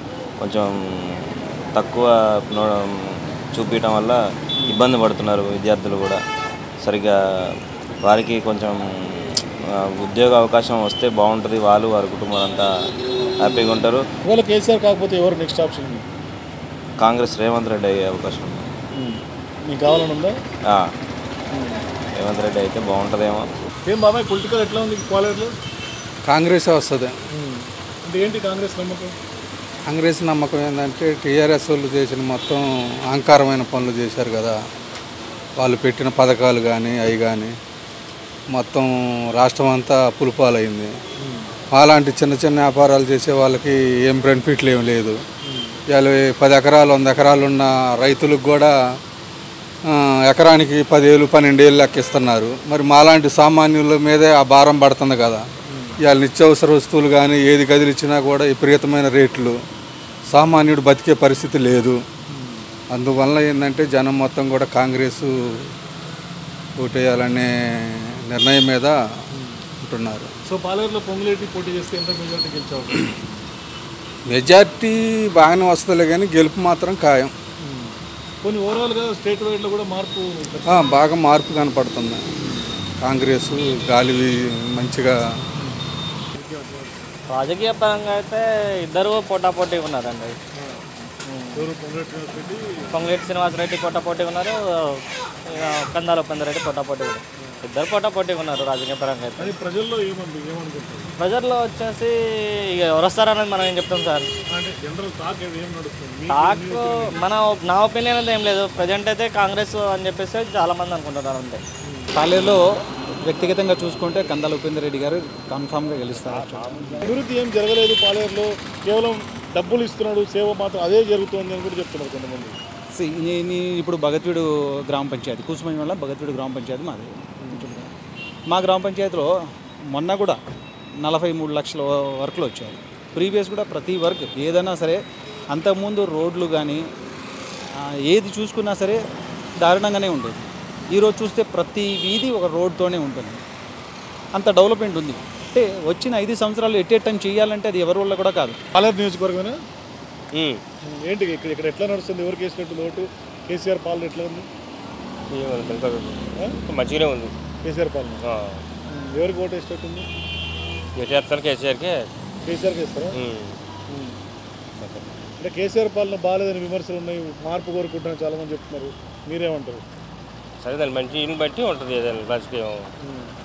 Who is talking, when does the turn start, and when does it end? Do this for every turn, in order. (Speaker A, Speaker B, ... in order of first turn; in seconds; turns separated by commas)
Speaker A: 0.4-1.2, Speaker A: 1.7-2.9, Speaker A: 3.5-6.2, Speaker A: 6.8-7.1, Speaker A: 8.0-12.7, Speaker A: 13.4-14.1, Speaker B: 14.2-16.1, Speaker A: 17.0-18.7, Speaker B: 18.9-20.4, Speaker B: 21.5-21.8, Speaker A: 22.1-23.4, Speaker B: 23.9-25.5, Speaker C: 26.2-27.1, Speaker B: 27.3-29.1, Speaker C: 29.9-34.5, Speaker C: 35.6-37.5, Speaker C: 38.5-40.9, Speaker B: 41.2-41.5, Speaker C: 41.7-45.2, Speaker B: 45.4-45.7, Speaker C: 45.9-48.7, Speaker C: 49.9-55.4, Speaker C: 56.0-59.5, Speaker C: 60.3-62.0, Speaker B: 62.3-62.7, Speaker C: 62.9-65.3, Speaker C: 66.8-67.5, Speaker C: 68.3-68.9, Speaker C: 69.8-70.3, Speaker B: 70.5-73.4, Speaker C: 74.3-77.3, Speaker B: 77.6-80.8, Speaker C: 80.7-82.2, Speaker B: 82.3-82.7, Speaker C: 83.0-85.1, Speaker B: 86.3-87.1, Speaker D: 87.3-90.3, Speaker B: 90.5-92.9, Speaker D: 92.9-95.0, Speaker D: 95.5-99.5, Speaker B: 99.4-101.1, Speaker D: 101.2-102.2, Speaker D: 102.7-104.3, Speaker B: 104.5-107.2, Speaker D: 106.3-111.6, Speaker E: 112.1-117.1, Speaker B: 117.0-122.6, Speaker E: 122.9-127.9, Speaker E: 128.5-129.3, Speaker E: 129.9-130.4, Speaker E: 131.0-136.8, Speaker E: 138.0-139.0, Speaker E: 139.6-143.4, Speaker E: 144.3-148.6, Speaker B: 148.7-149.6, Speaker F: 150.3-150.6, Speaker B: 150.8-154.5, Speaker F: 155.3-157.3, Speaker B: 157.6-158.2, Speaker F: 158.2-158.6, Speaker B: 158.9-160.1, Speaker F: 160.9-162.1, Speaker B: 162.4-163.1, Speaker F: 163.1-163.6, Speaker B: 163.9-164.2, Speaker F: 164.8-165.1, Speaker B: 165.4-169.8, Speaker F: 170.6-173.3